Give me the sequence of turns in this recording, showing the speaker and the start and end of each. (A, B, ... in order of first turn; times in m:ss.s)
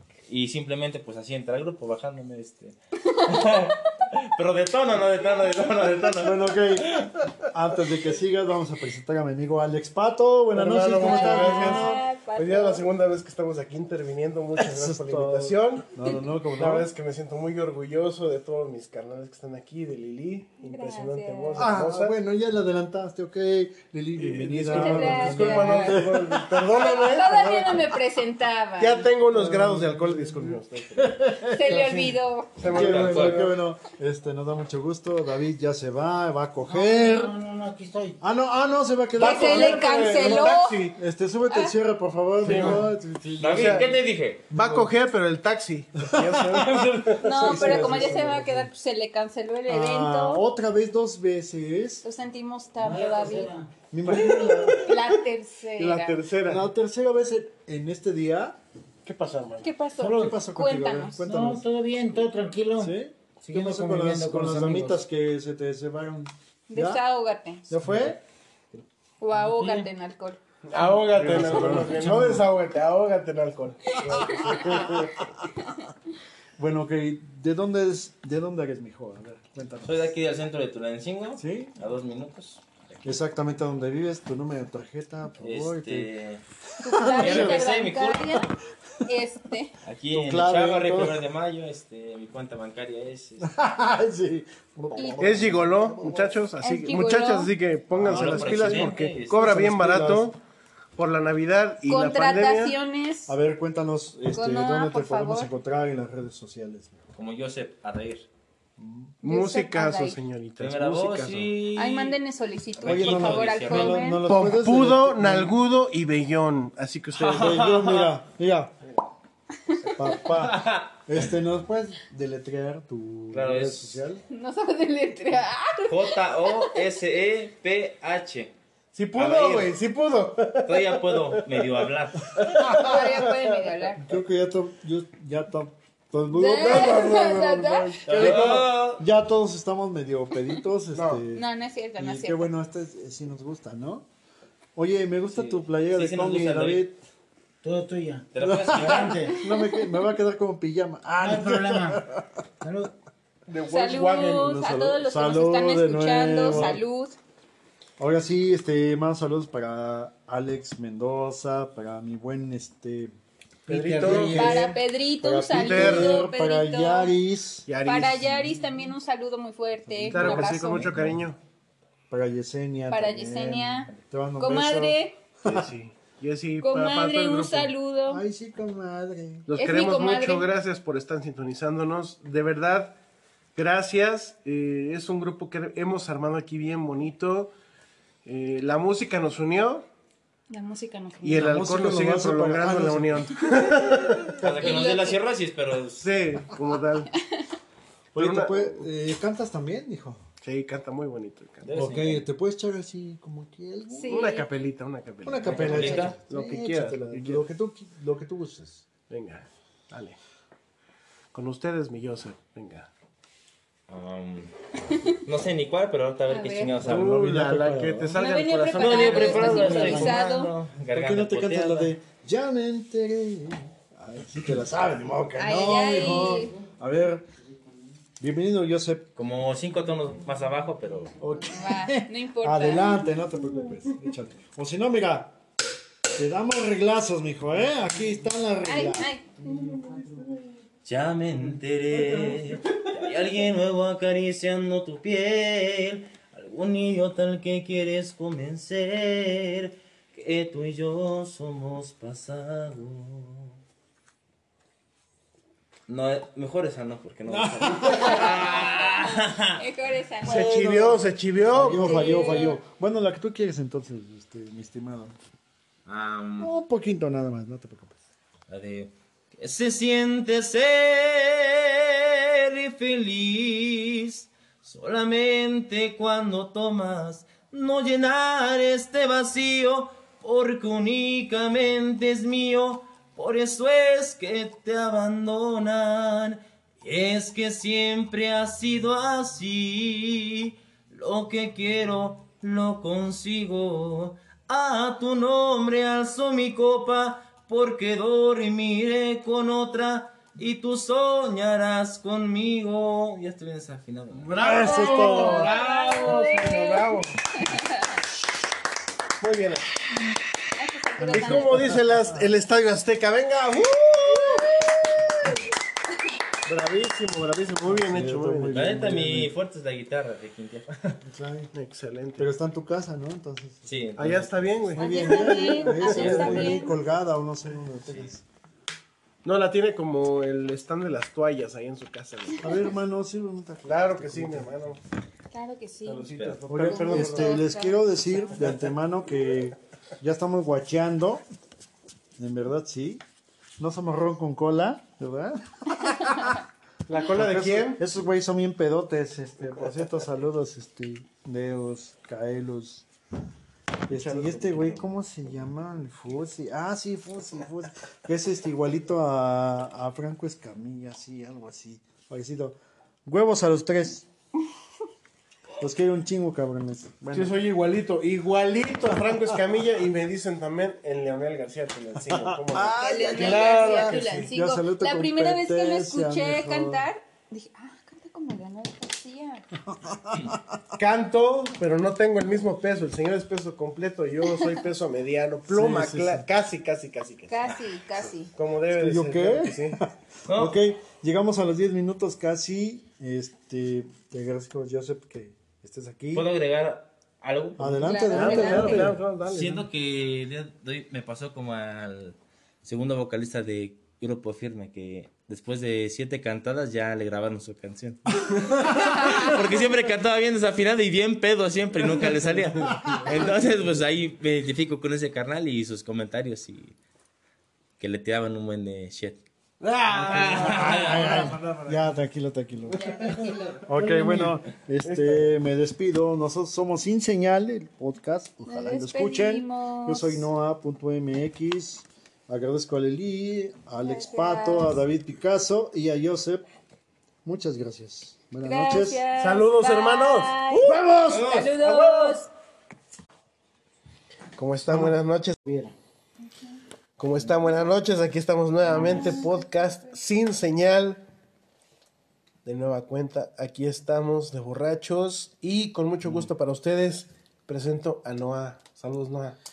0:00.3-0:07.1 A
0:03.1-0:03.7 B
0:06.1-0:12.0 C
0:10.5-0:16.0 D
0:10.9-0:12.8 B
0:14.6-0:16.9 C
0:16.5-0:22.1 D
0:20.6-0:21.7 B
0:21.6-0:26.8 C
0:24.2-0:27.8 D
0:24.7-0:26.1 B
0:26.7-0:29.1 B
0:28.8-0:33.5 D
0:29.3-0:31.8 C
0:31.5-0:32.6 B
0:32.6-0:33.5 A
0:32.7-0:37.3 C
0:36.6-0:38.2 E
0:38.2-0:43.9 C
0:39.2-0:40.8 B
0:39.2-0:41.0 D
0:42.4-0:42.8 D
0:43.4-0:44.4 A
0:43.5-0:43.9 D
0:44.5-0:48.2 D
0:44.5-0:44.9 C
0:46.0-0:48.7 C
0:47.2-0:50.4 B
0:49.7-0:52.0 C
0:52.0-0:53.5 B
0:52.8-0:53.7 E
0:53.9-0:55.1 C
0:54.0-0:55.2 D
0:54.8-0:56.2 B
0:55.8-0:56.6 D
0:56.4-0:58.6 C
0:59.0-0:59.7 D
0:59.6-1:01.2 B
1:00.0-1:00.4 E
1:00.1-1:01.6 C
1:01.2-1:05.0 E
1:02.8-1:07.0 C
1:06.7-1:07.7 B
1:07.7-1:08.2 C
1:09.2-1:10.4 B
1:09.3-1:09.9 E
1:10.7-1:15.2 D
1:11.1-1:12.5 C
1:13.9-1:14.9 B
1:14.1-1:15.2 C
1:15.6-1:15.9 B
1:16.6-1:20.1 C
1:19.8-1:23.2 A
1:21.4-1:21.7 C
1:23.0-1:26.1 C
1:25.4-1:26.4 A
1:26.8-1:28.5 B
1:26.8-1:27.7 C
1:27.2-1:28.4 A
1:29.0-1:29.7 B
1:29.8-1:33.5 A
1:30.1-1:31.2 C
1:33.4-1:36.4 C
1:34.9-1:35.4 B
1:35.2-1:40.4 D
1:36.6-1:37.5 B
1:38.0-1:39.6 A
1:38.0-1:40.3 C
1:41.0-1:42.8 D
1:41.8-1:43.3 B
1:43.3-1:47.0 C
1:44.3-1:45.5 B
1:47.1-1:48.3 A
1:48.8-1:49.1 C
1:49.2-1:50.2 B
1:49.2-1:51.6 D
1:50.6-1:52.2 A
1:51.7-1:54.2 B
1:52.8-1:54.1 A
1:52.8-1:55.5 C
1:54.2-1:57.7 D
1:57.1-1:58.1 A
1:57.3-1:58.8 C
1:58.8-1:59.1 D
1:59.7-2:00.1 D
1:59.9-2:04.2 C
2:00.3-2:01.3 A
2:03.3-2:04.0 A
2:04.3-2:06.8 B
2:05.9-2:08.5 A
2:08.9-2:11.6 D
2:09.2-2:09.7 A
2:10.6-2:12.3 A
2:12.3-2:13.7 D
2:12.7-2:14.1 B
2:14.0-2:21.4 C
2:16.3-2:18.2 B
2:16.6-2:17.4 D
2:18.1-2:18.7 D
2:18.1-2:19.0 A
2:20.9-2:21.2 D
2:21.3-2:22.5 B
2:22.0-2:24.0 C
2:24.8-2:27.0 C
2:25.3-2:26.8 A
2:27.6-2:29.4 E
2:28.3-2:29.3 A
2:28.4-2:32.2 C
2:29.4-2:29.8 B
2:31.2-2:32.0 E
2:32.6-2:32.9 E
2:33.5-2:34.6 D
2:33.7-2:37.2 B
2:34.4-2:36.8 C
2:38.0-2:43.1 C
2:43.7-2:44.6 D
2:43.7-2:44.8 E
2:44.0-2:44.7 C
2:44.3-2:47.1 B
2:45.2-2:47.7 C
2:45.4-2:46.2 D
2:47.6-2:48.6 D
2:47.8-2:51.0 B
2:49.9-2:51.2 C
2:50.1-2:51.4 D
2:52.1-2:55.7 C
2:52.9-2:55.2 B
2:55.4-2:57.7 D
2:56.6-2:58.2 B
2:58.1-2:59.5 C
2:59.5-3:03.0 D
2:59.5-3:00.5 B
3:03.5-3:07.5 D
3:08.2-3:09.8 D
3:10.5-3:11.5 B
3:11.2-3:14.4 D
3:11.2-3:14.4 C
3:14.4-3:16.1 A
3:14.6-3:15.2 B
3:16.0-3:17.1 D
3:17.2-3:17.5 B
3:18.1-3:20.2 C
3:18.2-3:18.9 D
3:20.4-3:21.9 D
3:21.6-3:22.2 A
3:21.7-3:24.3 C
3:23.9-3:24.4 B
3:24.1-3:27.4 D
3:25.2-3:28.8 C
3:25.4-3:26.2 A
3:29.1-3:30.2 D
3:31.3-3:32.9 D
3:33.9-3:34.5 A
3:35.1-3:38.2 A
3:36.3-3:36.8 B
3:36.8-3:40.2 D
3:38.1-3:40.5 B
3:38.7-3:41.9 A
3:40.9-3:47.3 C
3:45.4-3:46.5 B
3:48.2-3:49.1 C
3:49.2-3:51.1 A
3:51.2-3:55.3 C
3:51.4-3:53.0 B
3:56.1-3:59.1 C
3:58.6-3:59.4 B
3:59.5-3:59.9 D
4:00.8-4:13.6 A
4:15.9-4:19.6 A
4:17.2-4:18.4 C
4:17.8-4:20.7 B
4:20.2-4:22.4 D
4:20.2-4:25.2 C
4:21.7-4:22.6 B
4:25.8-4:26.5 A
4:26.4-4:28.0 C
4:28.5-5:04.3 A
5:04.1-5:07.2 D
5:04.4-5:05.5 C
5:04.6-5:08.0 B
5:09.2-5:09.7 D
5:10.6-5:11.8 B
5:11.0-5:12.3 C
5:11.1-5:15.4 D
5:16.4-5:18.9 D
5:17.6-5:19.3 C
5:18.5-5:21.0 A
5:21.0-5:21.5 C
5:21.5-5:22.3 D
5:22.2-5:23.7 C
5:23.6-5:24.4 A
5:24.0-5:26.6 D
5:24.8-5:26.8 B
5:24.8-5:28.2 C
5:25.8-5:26.6 A
5:29.2-5:32.5 D
5:32.4-5:34.5 C
5:33.6-5:34.8 D
5:35.3-5:36.0 B
5:35.8-5:37.5 D
5:36.1-5:36.4 A
5:36.5-5:41.2 C
5:36.6-5:38.5 B
5:38.4-5:38.7 D
5:42.2-5:43.0 C
5:43.6-5:46.4 C
5:46.9-5:47.8 D
5:47.1-5:52.8 C
5:53.9-6:04.1 C
5:53.9-5:54.9 D
6:05.6-6:07.4 C
6:07.1-6:14.3 D
6:12.0-6:16.9 C
6:12.8-6:19.5 B
6:19.8-6:20.6 C
6:20.8-6:27.4 D
6:25.5-6:26.2 C
6:27.3-6:28.3 B
6:28.3-6:29.8 D
6:28.7-6:36.3 C
6:30.3-6:30.6 A
6:36.1-6:38.5 A
6:37.6-6:39.0 C
6:37.8-6:38.9 B
6:38.1-6:39.7 D
6:39.2-6:56.8 A
6:48.2-6:48.8 C
6:49.0-6:49.3 B
6:52.0-6:53.3 D
6:57.8-6:59.2 A
6:59.6-7:02.0 D
6:59.9-7:01.3 A
7:00.3-7:02.8 C
7:02.7-7:04.3 E
7:03.7-7:16.4 C
7:04.8-7:05.3 D
7:08.4-7:10.2 B
7:13.8-7:14.7 B
7:17.2-7:19.0 C
7:18.4-7:22.3 B
7:19.2-7:22.2 D
7:20.6-7:21.4 C
7:24.4-7:25.4 D
7:25.4-7:25.7 E
7:27.0-7:31.0 D
7:28.9-7:29.3 B
7:32.4-7:39.4 D